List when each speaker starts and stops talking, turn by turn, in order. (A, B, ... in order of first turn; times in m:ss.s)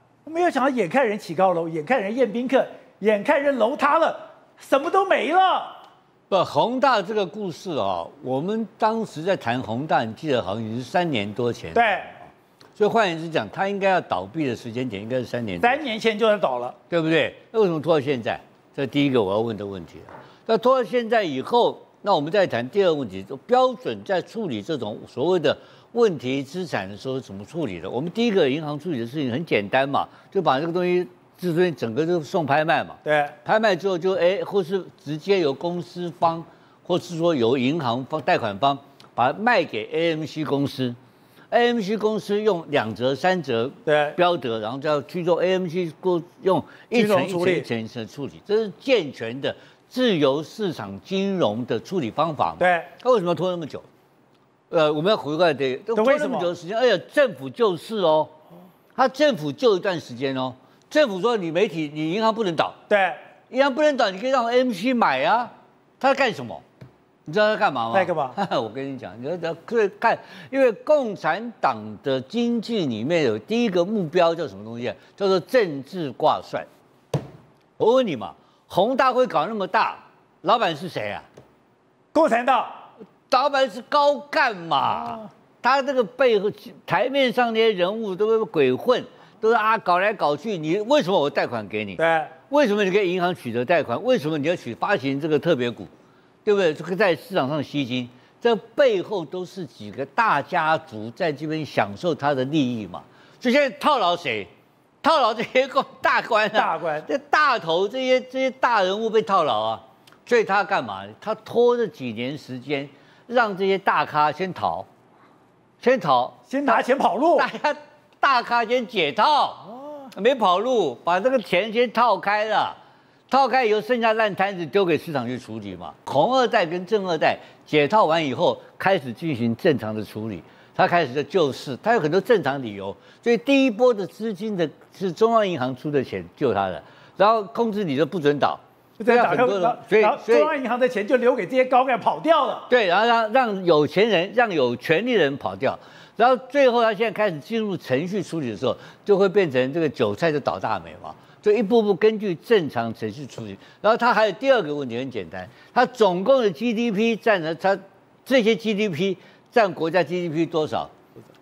0:00.2-0:05.8 A
0:06.3-0:12.0 B
0:11.7-0:12.1 A
0:12.8-0:15.8 B
0:15.6-0:16.8 A
0:16.9-0:41.0 B
0:33.0-0:33.3 A
0:41.5-0:53.8 B
0:43.8-0:44.2 A
0:46.9-0:47.6 A
0:52.6-0:52.9 A
0:54.7-0:58.3 B
0:55.9-0:56.5 A
0:59.0-1:02.8 B
1:02.9-1:03.2 A
1:03.5-1:06.6 B
1:07.2-1:16.7 B
1:07.9-1:08.4 A
1:17.8-1:21.2 B
1:22.1-1:22.8 A
1:23.3-1:35.9 B
1:32.0-1:32.3 A
1:36.4-1:44.5 B
1:45.0-1:54.9 B
1:46.5-1:47.0 A
1:55.8-2:02.8 B
1:56.5-1:57.4 A
2:03.3-2:20.5 B
2:19.0-2:22.7 A
2:22.7-2:40.9 B